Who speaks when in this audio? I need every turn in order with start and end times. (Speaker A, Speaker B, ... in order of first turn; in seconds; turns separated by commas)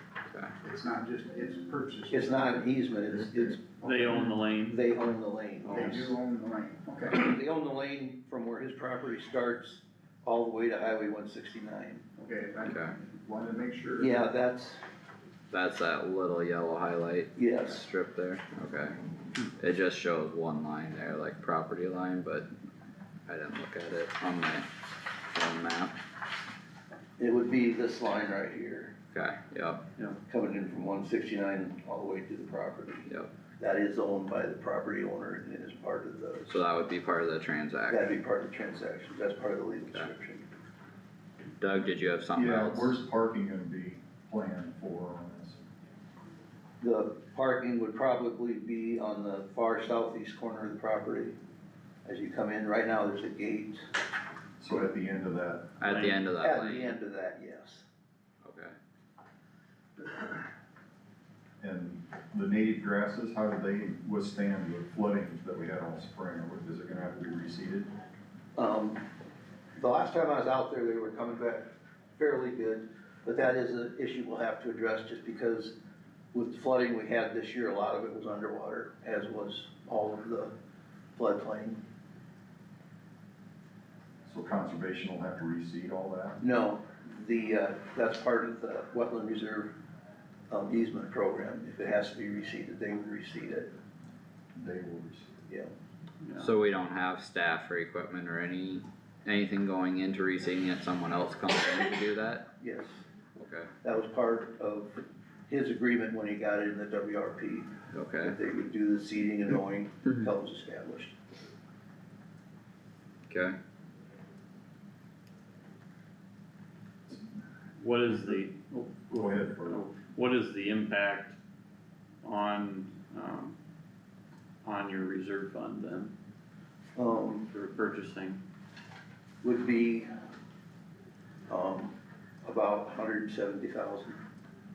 Speaker A: 0.6-4.3, Speaker B: 2.1-3.6, Speaker C: 3.8-4.8, Speaker B: 4.7-6.1, Speaker C: 5.6-6.0, Speaker A: 5.7-7.3, Speaker B: 7.1-12.0, Speaker A: 12.2-14.3, Speaker D: 12.6-12.9, Speaker B: 14.0-14.8, Speaker D: 15.5-19.0, Speaker B: 17.4-17.8, Speaker D: 19.6-22.5, Speaker D: 23.3-24.7, Speaker D: 25.3-25.9, Speaker B: 27.2-28.9, Speaker D: 29.1-29.8, Speaker B: 30.3-33.0, Speaker B: 33.6-36.5, Speaker D: 36.5-38.1, Speaker B: 37.9-40.4, Speaker D: 41.6-42.9, Speaker E: 42.3-45.6, Speaker B: 46.8-51.3, Speaker B: 52.0-53.8, Speaker E: 54.6-56.0, Speaker D: 55.8-56.9, Speaker B: 56.4-57.9, Speaker D: 58.4-58.7, Speaker E: 61.6-67.9, Speaker B: 68.5-69.0, Speaker B: 69.8-75.7, Speaker B: 76.3-80.5, Speaker B: 81.2-81.8, Speaker E: 84.2-86.4, Speaker B: 86.4-89.7, Speaker B: 90.5-93.7, Speaker E: 94.5-95.3, Speaker C: 96.2-96.5, Speaker D: 96.4-102.5, Speaker B: 102.6-103.0, Speaker D: 103.4-103.7, Speaker B: 103.8-111.1, Speaker D: 107.9-108.4, Speaker D: 113.3-113.5, Speaker C: 117.8-121.4, Speaker E: 119.1-119.8, Speaker C: 122.2-123.5, Speaker C: 124.6-126.1, Speaker B: 127.0-127.5, Speaker C: 127.5-128.4, Speaker B: 129.4-130.1, Speaker B: 131.5-134.2